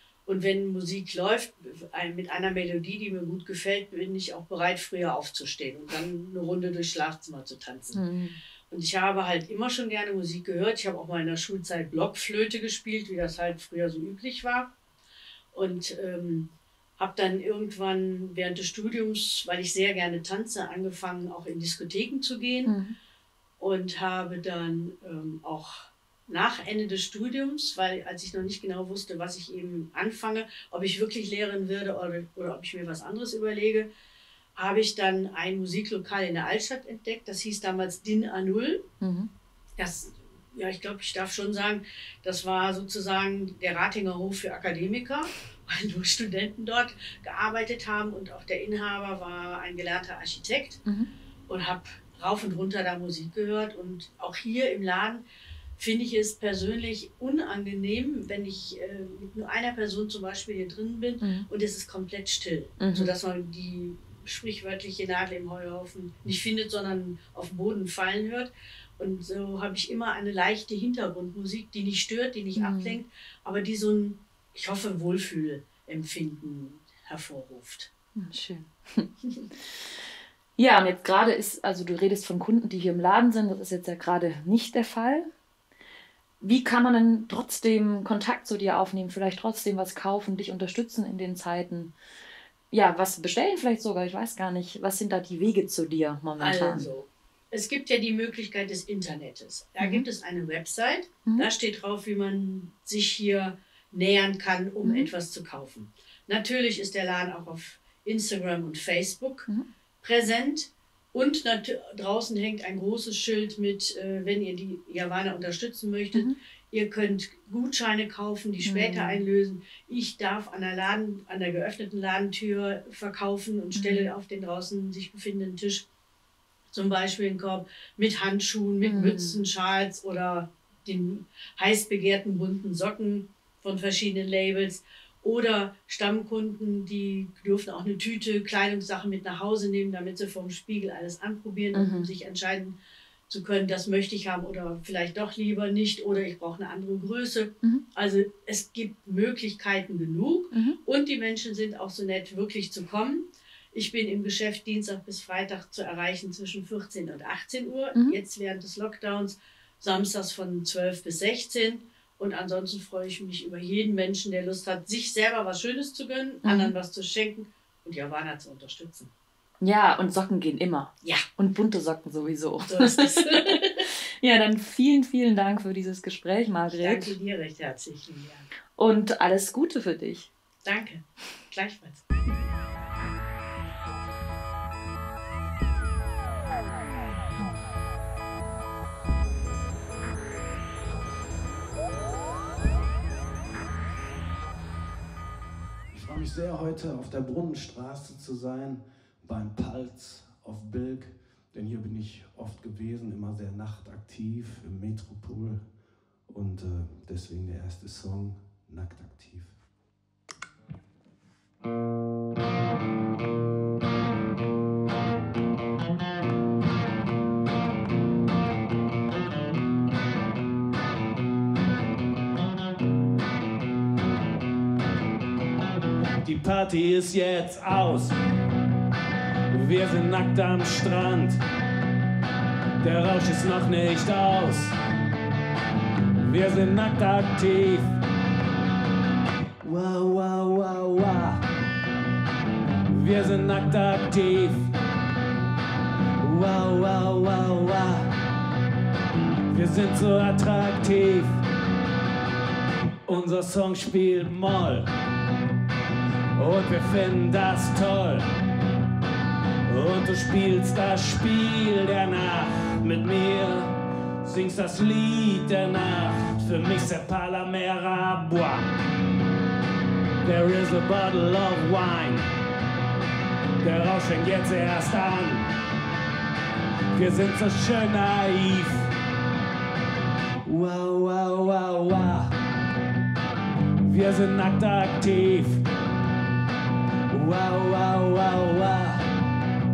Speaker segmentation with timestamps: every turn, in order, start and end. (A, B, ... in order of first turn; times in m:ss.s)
0:00.2-0:08.0 A
0:07.9-0:08.4 B
0:08.7-0:14.7 A
0:15.5-0:22.7 A
0:22.6-0:23.0 B
0:23.6-0:33.9 A
0:34.6-0:38.9 A
0:39.0-0:39.3 B
0:39.8-0:50.8 A
0:51.5-0:55.2 A
0:55.8-1:17.9 A
1:01.2-1:01.5 B
1:02.8-1:03.1 B
1:12.6-1:13.0 B
1:18.2-1:25.3 B
1:26.4-1:31.9 B
1:32.7-1:36.9 B
1:36.4-1:49.5 A
1:39.8-1:40.0 B
1:44.8-1:45.1 B
1:50.0-2:05.8 A
1:58.6-1:59.2 B
2:03.8-2:04.1 B
2:06.7-2:22.8 A
2:08.8-2:09.4 B
2:21.7-2:22.1 B
2:23.3-2:49.1 A
2:30.5-2:30.8 B
2:46.4-2:46.7 B
2:49.6-2:57.1 B
2:52.6-2:53.8 A
2:56.8-2:58.5 A
2:58.8-3:00.3 B
3:00.6-3:02.0 A
3:15.9-3:25.7 C
3:26.3-3:29.5 C
3:46.2-3:48.2 C
3:49.5-3:51.4 C
3:52.8-3:54.7 C
3:56.2-3:58.0 C
3:59.6-4:01.4 C
4:02.9-4:04.7 C
4:06.2-4:08.2 C
4:09.5-4:11.4 C
4:13.0-4:14.9 C
4:16.4-4:18.3 C
4:19.6-4:28.7 C
4:30.2-4:32.3 C
4:33.6-4:35.5 C
4:36.9-4:38.9 C
4:40.4-4:42.4 C
4:43.8-4:45.6 C
4:47.1-4:49.1 C